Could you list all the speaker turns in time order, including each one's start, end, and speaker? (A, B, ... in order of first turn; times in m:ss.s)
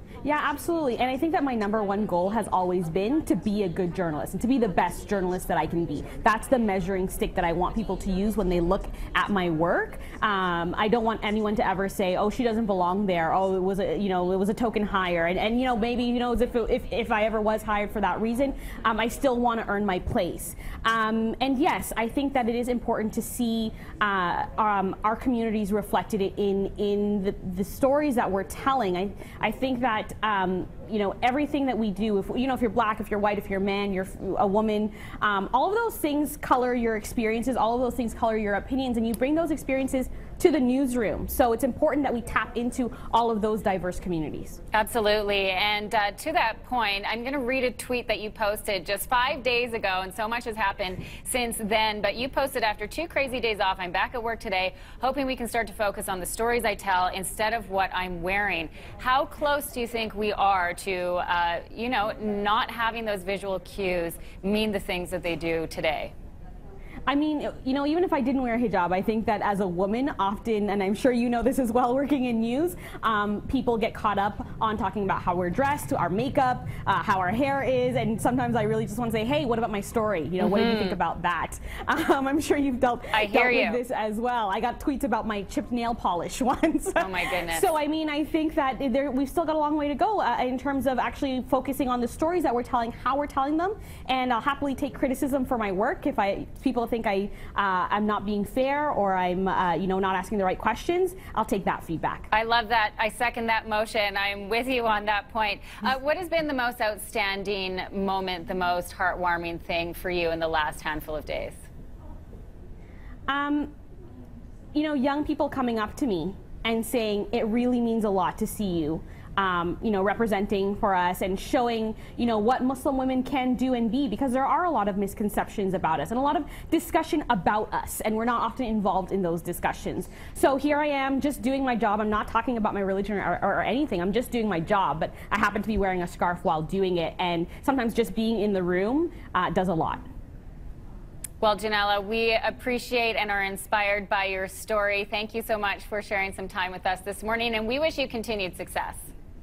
0:00.2-0:44.6 A
0:44.7-1:06.1 B
1:07.1-1:42.3 A
1:20.4-1:21.0 B
1:23.1-1:23.8 B
1:27.0-1:27.7 B
1:42.3-1:51.6 B
1:53.3-1:53.7 A
1:54.7-2:20.0 A
2:21.4-2:29.1 B